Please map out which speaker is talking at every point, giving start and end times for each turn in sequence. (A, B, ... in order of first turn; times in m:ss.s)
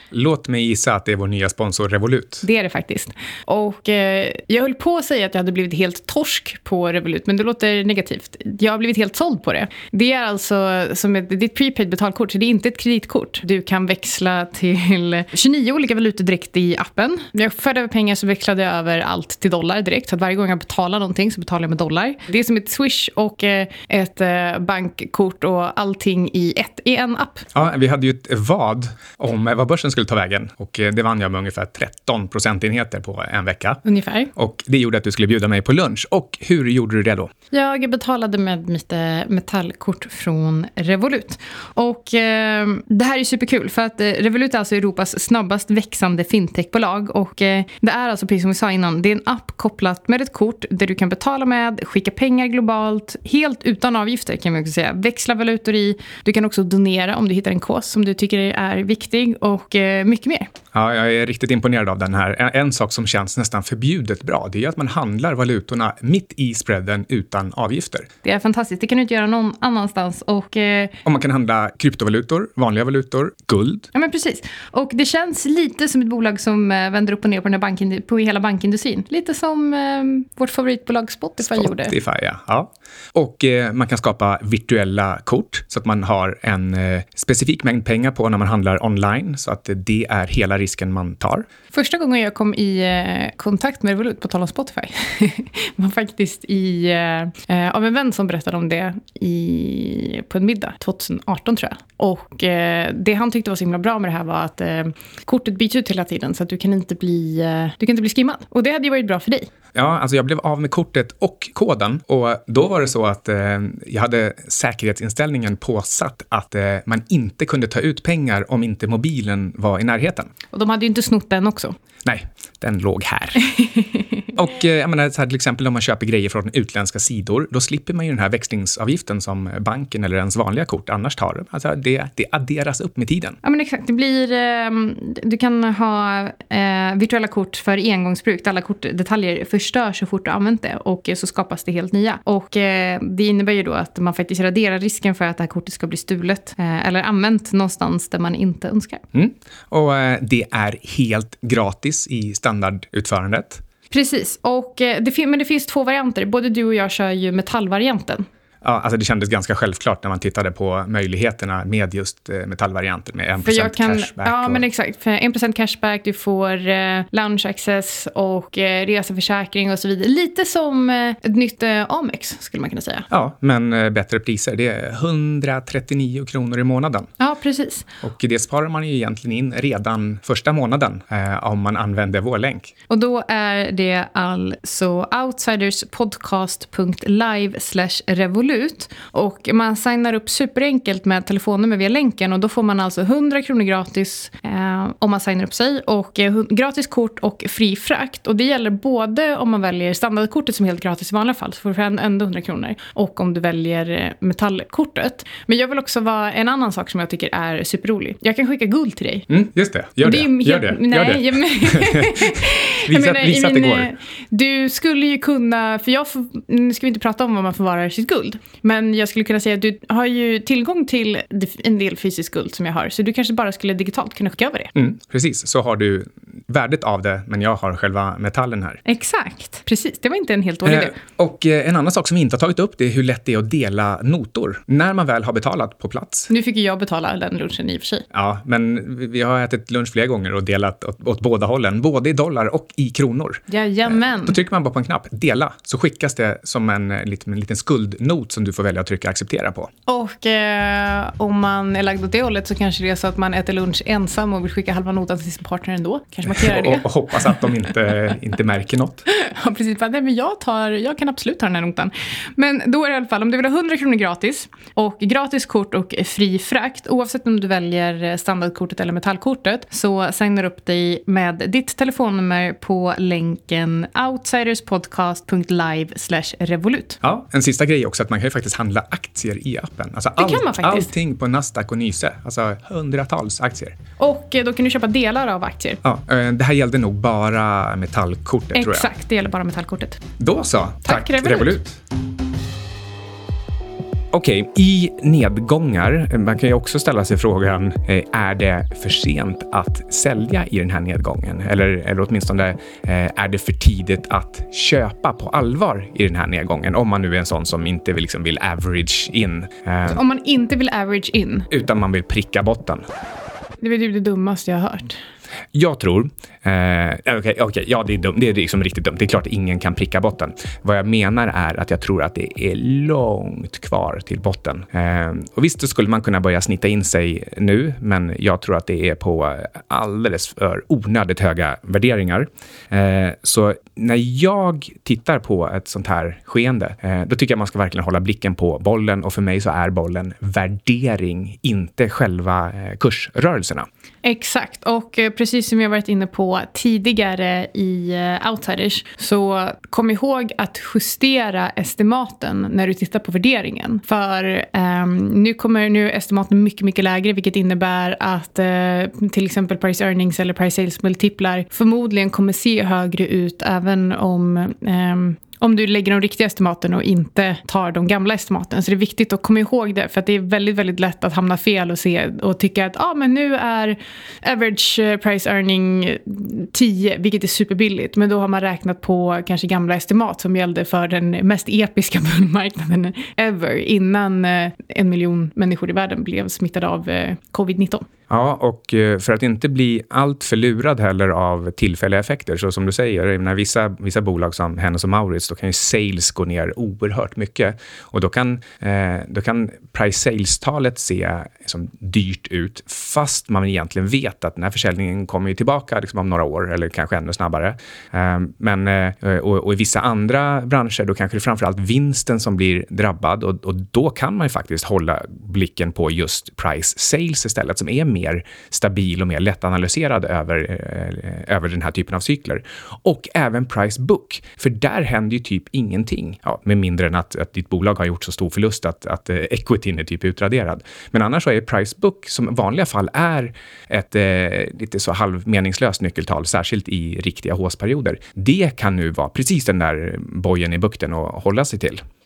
0:00.1-0:02.4 A
0:02.4-0:27.5 B
0:27.5-0:33.8 A
0:33.8-0:34.3 B
0:34.3-0:37.3 A
0:37.5-1:00.5 B
1:00.7-1:08.1 A
1:08.2-1:11.0 B
1:11.0-1:13.9 A
1:13.9-1:21.9 B
1:21.4-1:31.5 A
1:31.7-1:49.5 B
1:49.7-2:00.3 A
2:00.5-2:01.8 B
2:02.0-2:03.5 A
2:03.5-2:04.2 B
2:04.3-2:13.4 A
2:13.4-2:29.0 B
2:29.1-2:33.6 A
2:33.9-2:38.2 B
2:38.6-2:44.6 A
2:43.4-2:53.1 B
2:53.1-2:57.1 A
2:57.2-2:57.9 B
2:58.0-3:02.7 A
3:02.9-3:29.3 B
3:29.3-3:33.9 A
3:30.0-3:44.7 B
3:44.7-3:48.8 A
3:48.8-3:50.9 B
3:50.6-3:56.3 A
3:56.3-3:58.0 B
3:58.1-4:09.7 A
4:03.5-4:04.4 B
4:09.9-4:17.7 B
4:16.2-4:19.0 A
4:19.1-4:37.0 B
4:37.0-4:43.8 A
4:40.2-4:40.9 B
4:44.0-4:45.8 B
4:45.8-4:48.9 A
4:48.5-4:50.0 B
4:50.2-4:51.8 A
4:50.8-4:51.6 B
4:54.1-5:10.0 A
5:09.9-5:11.5 B
5:11.5-5:12.8 A
5:13.6-5:15.0 B
5:15.5-5:43.7 A
5:44.0-6:27.9 B
6:28.1-7:21.8 A